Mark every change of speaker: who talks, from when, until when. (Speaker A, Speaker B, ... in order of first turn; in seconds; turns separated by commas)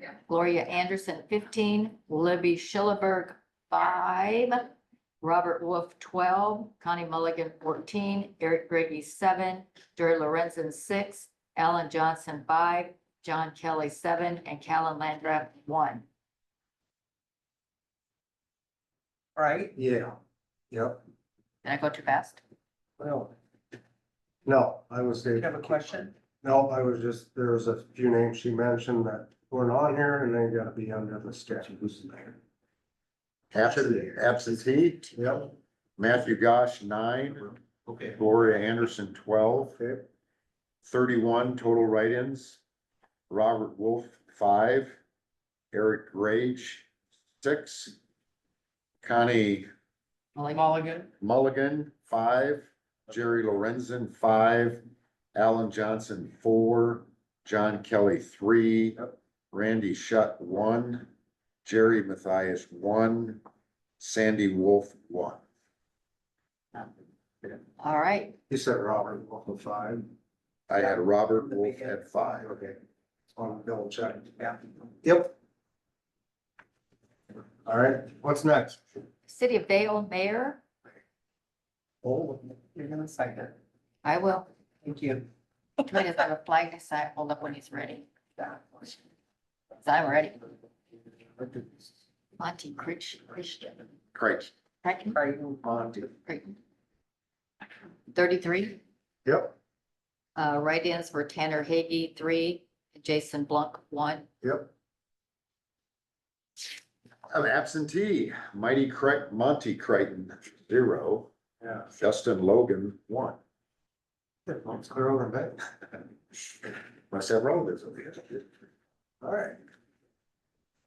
Speaker A: 0.2-4.7, Speaker A: 5.2-16.0, Speaker B: 19.4-19.7, Speaker C: 19.7-20.1, Speaker C: 20.7-21.0, Speaker A: 21.6-22.4, Speaker C: 23.0-23.3, Speaker C: 24.4-25.9, Speaker B: 25.4-26.1, Speaker C: 26.4-32.4, Speaker D: 33.5-35.1, Speaker C: 35.1-35.5, Speaker D: 36.0-39.8, Speaker C: 39.8-40.0, Speaker D: 40.9-42.6, Speaker D: 43.3-45.0, Speaker D: 45.7-46.9, Speaker D: 47.4-47.9, Speaker D: 49.0-49.7, Speaker B: 50.4-51.1, Speaker D: 51.2-54.8, Speaker D: 55.3-61.1, Speaker D: 61.6-63.4, Speaker D: 64.0-65.4, Speaker A: 67.8-68.3, Speaker C: 68.5-70.1, Speaker D: 70.7-72.5, Speaker B: 71.5-71.9, Speaker C: 72.4-72.8, Speaker C: 73.3-75.3, Speaker C: 77.6-78.8, Speaker A: 79.2-80.6, Speaker B: 82.0-83.5, Speaker A: 84.0-84.5, Speaker B: 84.8-85.3, Speaker A: 85.8-88.1, Speaker A: 89.8-90.5, Speaker A: 92.4-93.8, Speaker D: 94.1-94.5, Speaker A: 94.8-95.2, Speaker B: 95.1-96.0, Speaker A: 96.2-96.6, Speaker A: 98.1-98.8, Speaker C: 99.2-99.5, Speaker A: 100.3-104.3, Speaker C: 104.4-104.7, Speaker D: 107.3-111.3, Speaker D: 111.9-113.4, Speaker C: 114.5-115.6, Speaker D: 117.1-118.4, Speaker C: 119.2-119.6